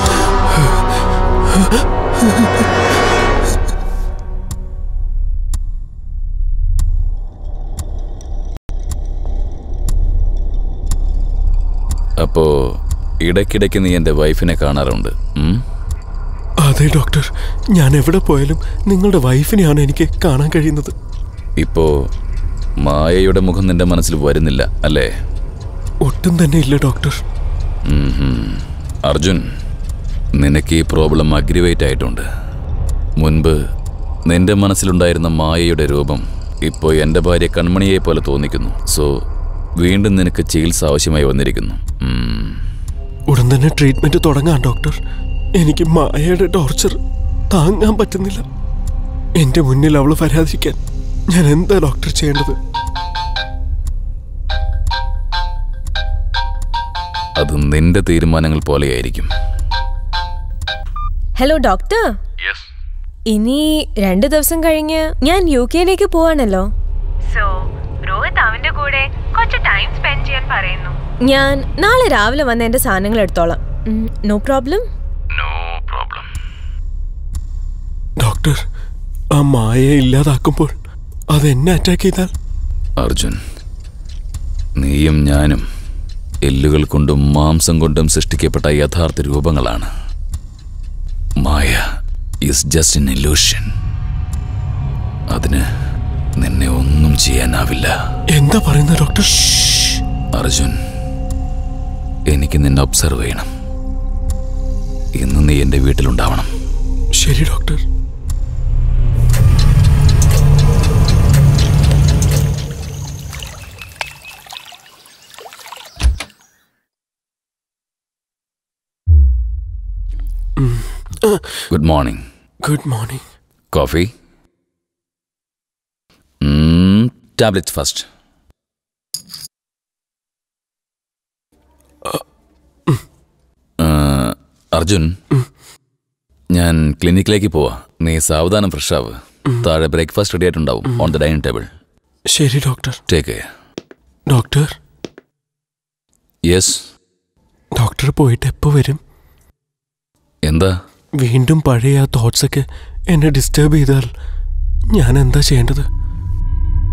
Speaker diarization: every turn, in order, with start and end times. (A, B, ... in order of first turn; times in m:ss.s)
0:12.2-0:15.6 A
0:16.6-0:20.9 B
0:21.6-0:22.1 A
0:22.8-0:25.1 A
0:26.0-0:27.2 B
0:27.8-0:29.5 A
0:30.4-0:32.2 A
0:33.2-0:33.6 A
0:34.3-0:39.2 A
0:39.8-0:42.6 A
0:43.3-0:45.0 B
0:45.6-0:47.0 B
0:47.5-0:48.4 B
0:49.4-0:50.8 B
0:51.3-0:52.6 B
0:57.4-0:59.3 A
1:01.4-1:02.1 C
1:03.3-1:06.7 C
1:07.3-1:14.8 C
1:15.3-1:16.3 A
1:18.2-1:18.6 B
1:19.4-1:20.7 B
1:21.3-1:22.3 B
1:23.0-1:23.4 A
1:24.8-1:25.6 A
1:26.4-1:29.9 A
1:31.4-1:31.8 A
1:32.4-1:33.7 A
1:35.3-1:35.6 A
1:36.4-1:37.9 A
1:38.3-1:40.0 B
1:40.3-1:40.8 A
1:42.3-1:43.5 A
1:45.2-1:46.5 A
1:47.2-1:47.8 B
2:00.6-2:01.6 B
2:01.7-2:02.2 A
2:02.6-2:03.2 B
2:03.7-2:04.1 A
2:06.4-2:08.0 A
2:13.8-2:15.2 A
2:16.5-2:21.7 A
2:22.3-2:23.0 B
2:23.1-2:23.5 A
2:24.3-2:24.7 B
2:26.5-2:26.9 A
2:27.8-2:29.0 B
2:30.4-2:30.7 A
2:31.2-2:34.1 B
2:34.9-2:35.8 B